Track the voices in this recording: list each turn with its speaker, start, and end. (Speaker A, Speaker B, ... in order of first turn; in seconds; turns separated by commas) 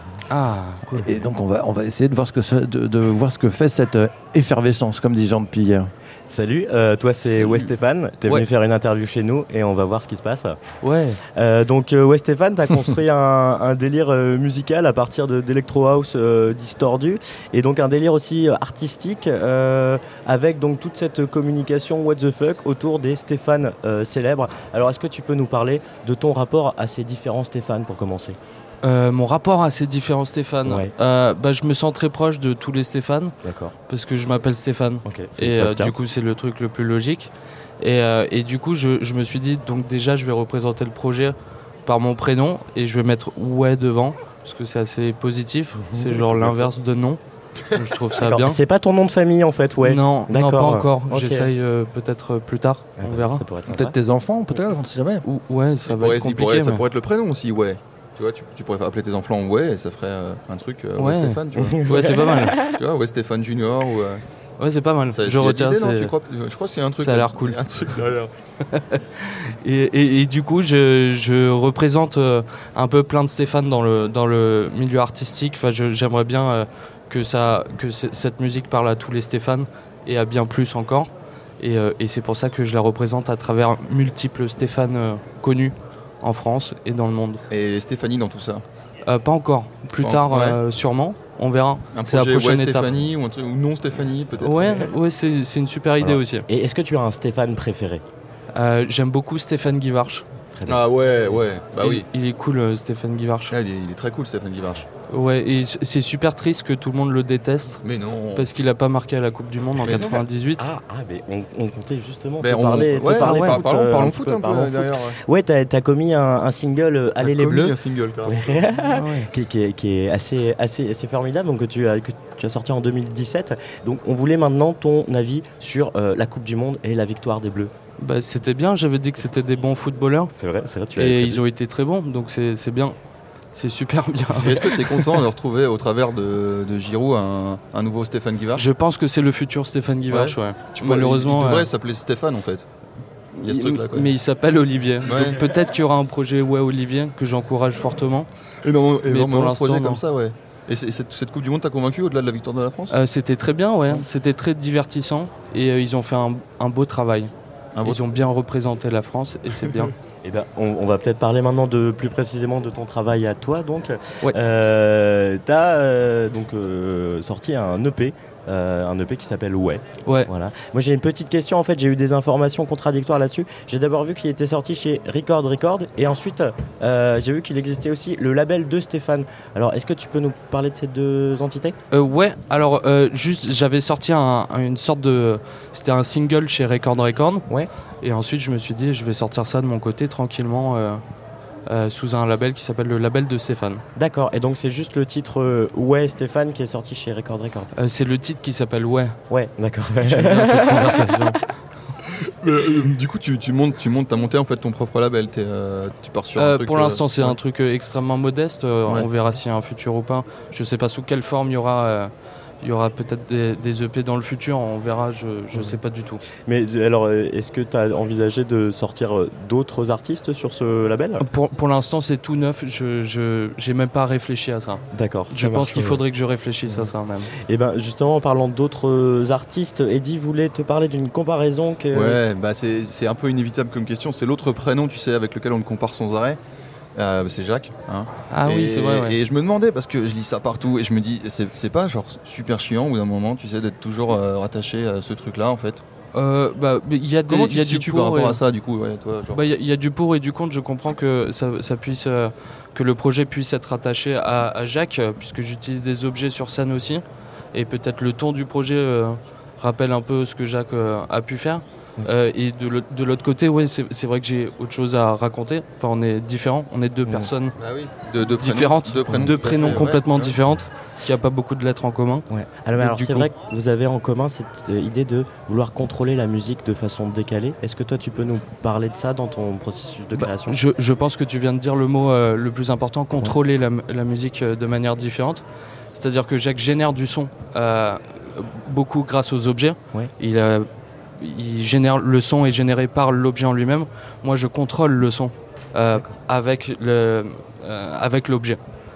Speaker A: 0.3-1.1, Speaker B: 0.9-5.9, Speaker C: 6.3-10.6, Speaker A: 7.3-7.7, Speaker A: 10.8-11.2, Speaker C: 11.3-28.4, Speaker A: 28.8-33.3, Speaker C: 30.6-30.9, Speaker C: 33.4-33.7, Speaker A: 33.9-48.6, Speaker C: 35.0-35.9, Speaker C: 45.9-46.5, Speaker C: 48.2-51.5, Speaker A: 49.8-53.4, Speaker C: 53.0-53.9, Speaker B: 53.7-55.2, Speaker A: 55.2-56.8, Speaker D: 55.9-64.2, Speaker A: 61.0-62.6, Speaker C: 61.6-62.7, Speaker A: 64.6-66.2, Speaker D: 65.1-68.3, Speaker A: 67.0-67.6, Speaker A: 68.7-81.1, Speaker A: 81.6-87.4, Speaker D: 87.5-88.6, Speaker A: 89.0-93.1, Speaker D: 90.0-90.6, Speaker D: 91.9-94.9, Speaker A: 94.4-96.5, Speaker C: 96.0-98.0, Speaker A: 98.5-100.2, Speaker C: 100.5-101.4, Speaker D: 100.7-102.1, Speaker A: 101.8-103.5, Speaker D: 103.5-104.9, Speaker A: 105.1-107.8, Speaker D: 107.8-108.5, Speaker A: 108.3-110.6, Speaker D: 109.8-110.2, Speaker C: 109.8-127.7, Speaker D: 112.4-115.2, Speaker A: 113.2-113.6, Speaker D: 117.2-118.6, Speaker A: 118.9-119.3, Speaker A: 128.0-130.3, Speaker C: 130.3-131.4, Speaker A: 130.9-133.0, Speaker A: 133.5-135.3, Speaker D: 134.3-138.6, Speaker A: 138.5-141.7, Speaker D: 140.1-142.7, Speaker A: 143.3-148.3, Speaker D: 143.4-144.1, Speaker D: 145.1-145.4, Speaker D: 148.6-152.9, Speaker A: 149.0-150.0, Speaker A: 152.9-157.3, Speaker D: 157.7-158.0, Speaker A: 157.8-159.9, Speaker C: 160.2-181.8, Speaker A: 170.0-170.3, Speaker A: 181.9-187.5, Speaker A: 188.0-191.0, Speaker A: 191.7-193.8, Speaker C: 193.9-197.7, Speaker A: 197.7-199.2, Speaker C: 199.3-201.0, Speaker A: 200.0-201.4, Speaker D: 202.1-207.3, Speaker A: 206.3-216.2, Speaker C: 216.4-221.2, Speaker A: 221.2-227.3, Speaker C: 224.9-226.0, Speaker C: 226.7-232.2, Speaker D: 231.9-236.4, Speaker D: 236.9-245.8, Speaker A: 238.3-239.2, Speaker A: 246.1-248.4, Speaker D: 247.3-249.4, Speaker A: 249.3-267.6, Speaker C: 267.1-267.3, Speaker D: 267.6-270.4, Speaker A: 268.3-273.3, Speaker C: 269.1-269.8, Speaker C: 272.3-280.6, Speaker A: 280.1-298.6